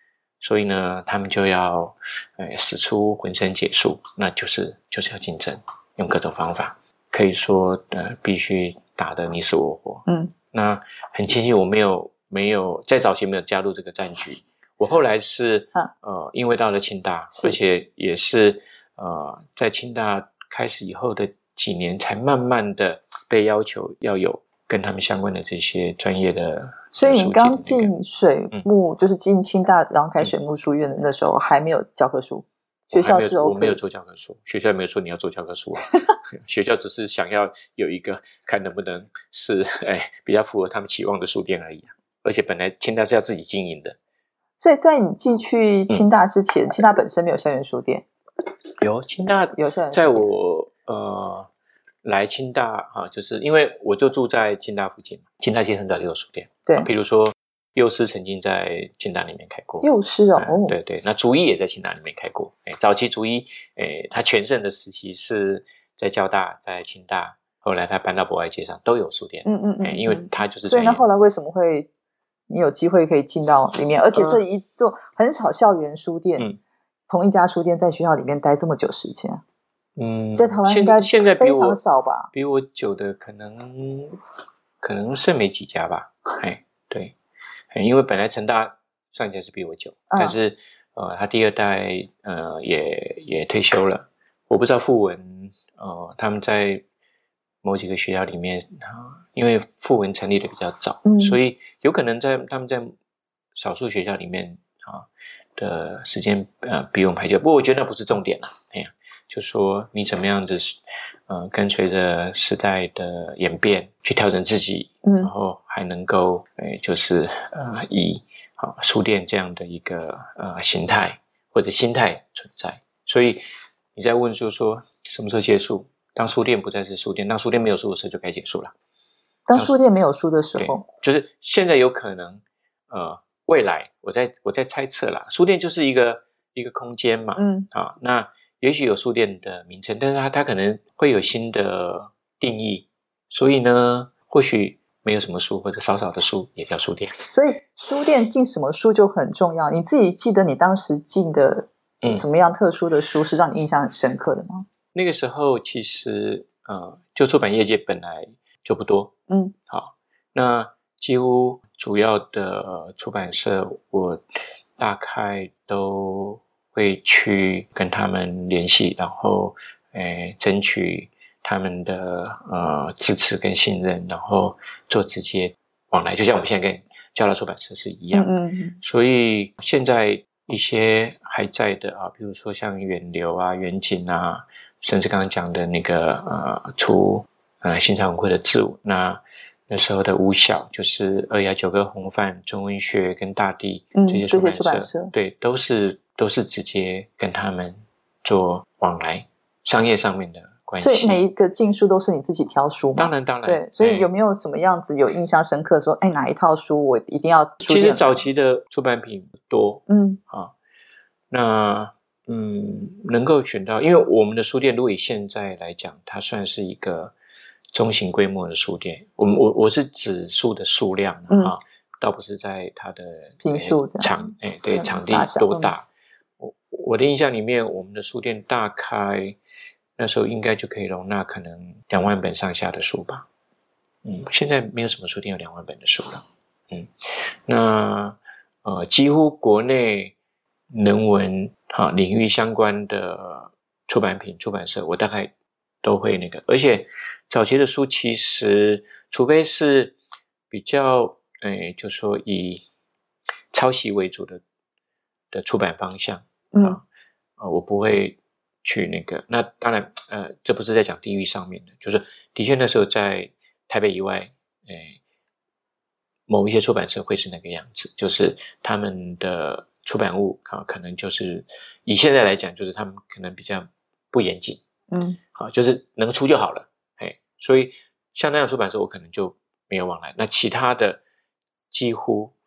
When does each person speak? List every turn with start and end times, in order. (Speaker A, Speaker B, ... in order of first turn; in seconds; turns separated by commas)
Speaker A: 0.4-27.9, Speaker B: 10.1-10.3, Speaker B: 26.9-33.8, Speaker A: 32.9-44.0, Speaker B: 44.6-48.0, Speaker A: 48.8-51.5, Speaker B: 49.5-50.3, Speaker A: 52.0-71.0, Speaker B: 59.8-60.7, Speaker B: 69.4-71.9, Speaker B: 72.5-76.5, Speaker A: 74.1-74.4, Speaker B: 77.1-79.4, Speaker A: 80.0-81.8, Speaker B: 80.3-82.3, Speaker A: 82.3-84.2, Speaker A: 84.8-87.2, Speaker A: 87.7-96.8, Speaker B: 90.1-90.4, Speaker A: 97.6-103.0, Speaker B: 101.0-101.4, Speaker A: 103.5-123.4, Speaker B: 115.0-115.3, Speaker A: 123.9-128.7, Speaker B: 129.5-130.8, Speaker A: 130.5-147.1, Speaker B: 137.4-137.7, Speaker B: 147.3-154.7, Speaker A: 154.9-159.1, Speaker A: 159.7-164.2, Speaker A: 164.8-201.2, Speaker B: 178.1-178.8, Speaker B: 193.9-195.1, Speaker B: 200.8-208.1, Speaker A: 202.9-204.1, Speaker A: 207.7-210.5, Speaker B: 209.9-210.2, Speaker A: 211.3-217.1, Speaker A: 217.7-225.8, Speaker B: 221.3-221.5, Speaker B: 223.4-224.1, Speaker B: 224.7-225.7, Speaker A: 226.4-229.4, Speaker A: 230.0-233.3, Speaker A: 234.0-240.1, Speaker A: 240.7-245.3, Speaker A: 245.8-250.0, Speaker A: 250.5-252.6, Speaker A: 253.5-254.4, Speaker A: 255.3-256.8, Speaker B: 256.5-256.8, Speaker A: 257.4-265.0, Speaker A: 266.3-274.6, Speaker B: 274.9-275.2, Speaker A: 275.3-281.0, Speaker A: 281.7-282.4